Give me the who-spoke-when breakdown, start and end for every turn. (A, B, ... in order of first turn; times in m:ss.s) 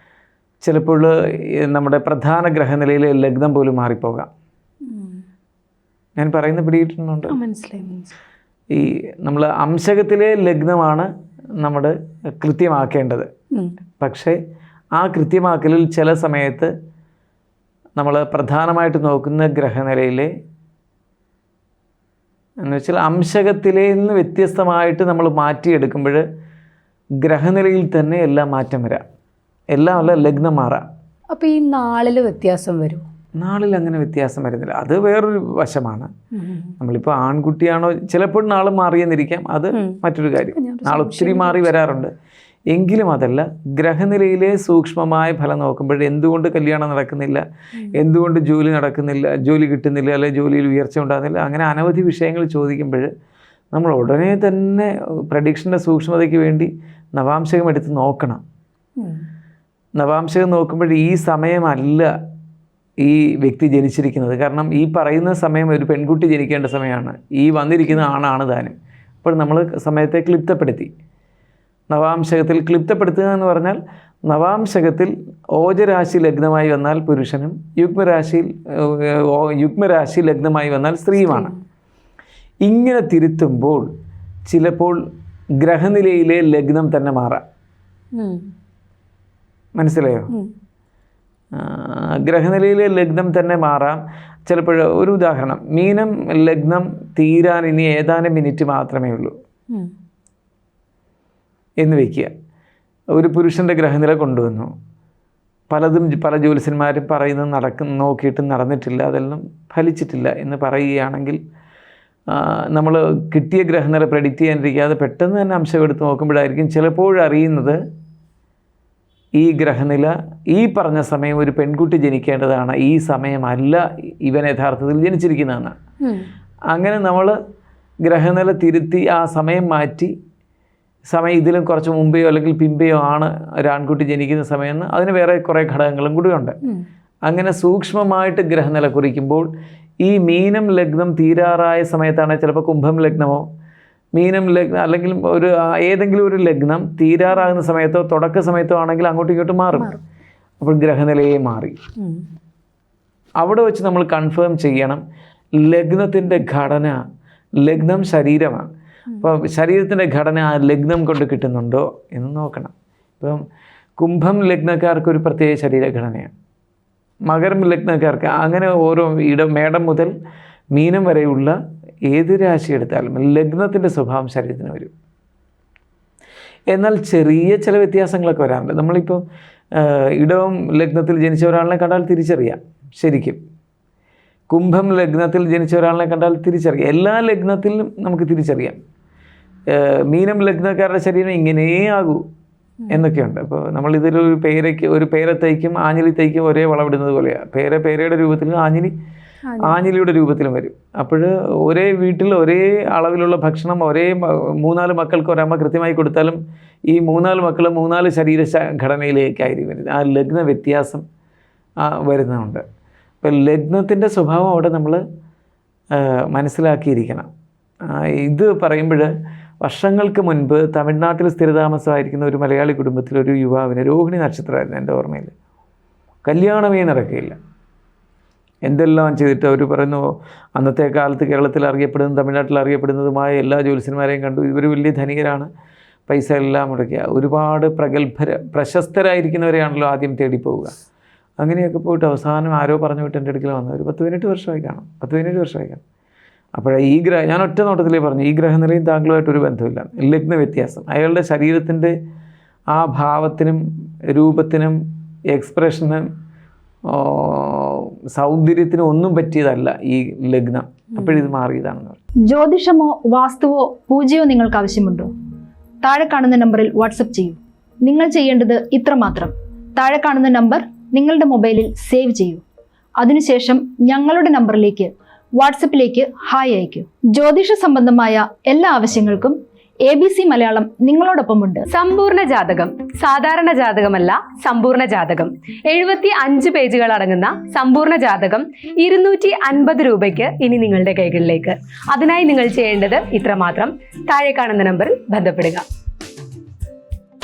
0:00.6-0:04.3 A
0:04.9-0:05.2 B
0:06.2-0:07.3 A
0:07.3-0:08.1 B
0:08.7-0:11.1 A
0:11.6-0:13.3 A
0:14.0-0:14.4 A
0:15.0-0:16.7 A
0:18.0-0:20.3 A
0:22.6-0:26.2 A
0:27.2-0:29.0 A
0:29.7-0:30.9 A
0:31.3-0:33.0 B
0:33.4-0:36.1 A
0:36.4-0:36.7 B
0:36.8-0:42.1 A
0:39.7-0:40.0 B
0:40.5-0:41.7 B
0:42.7-0:53.1 A
0:53.7-0:58.4 A
1:00.0-1:02.1 A
1:03.0-1:10.9 A
1:11.9-1:21.5 A
1:21.1-1:21.6 B
1:22.6-1:23.9 A
1:24.5-1:25.0 A
1:25.6-1:27.4 A
1:28.2-1:28.5 B
1:29.8-1:30.3 A
1:31.6-1:39.3 A
1:41.8-1:42.3 A
1:43.1-1:44.7 A
1:45.7-1:51.4 A
1:52.3-1:57.8 A
1:59.4-2:05.8 A
2:06.7-2:07.4 A
2:08.0-2:10.1 A
2:11.1-2:16.6 A
2:17.3-2:19.5 A
2:20.0-2:23.4 A
2:24.1-2:29.9 A
2:30.6-2:31.8 A
2:32.0-2:32.2 B
2:33.4-2:35.0 A
2:35.6-2:37.0 A
2:37.6-2:43.4 A
2:44.0-2:46.3 A
2:47.3-2:50.1 A
2:50.7-2:51.6 A
2:52.1-2:54.9 A
2:56.7-2:59.2 A
2:59.8-3:03.4 A
3:04.5-3:08.8 A
3:09.7-3:12.2 A
3:12.9-3:18.9 A
3:19.4-3:19.8 B
3:19.6-3:31.0 A
3:31.8-3:32.6 A
3:33.2-3:35.0 A
3:35.9-3:37.3 A
3:37.9-3:39.1 A
3:39.6-3:45.3 A
3:46.2-3:47.4 A
3:48.6-3:55.5 A
3:56.1-4:00.7 A
4:01.4-4:05.8 A
4:06.5-4:11.9 A
4:12.7-4:14.8 A
4:15.3-4:16.1 A
4:16.9-4:22.0 A
4:21.0-4:21.3 B
4:22.3-4:25.1 C
4:25.8-4:32.4 C
4:33.0-4:41.6 C
4:41.7-4:55.6 D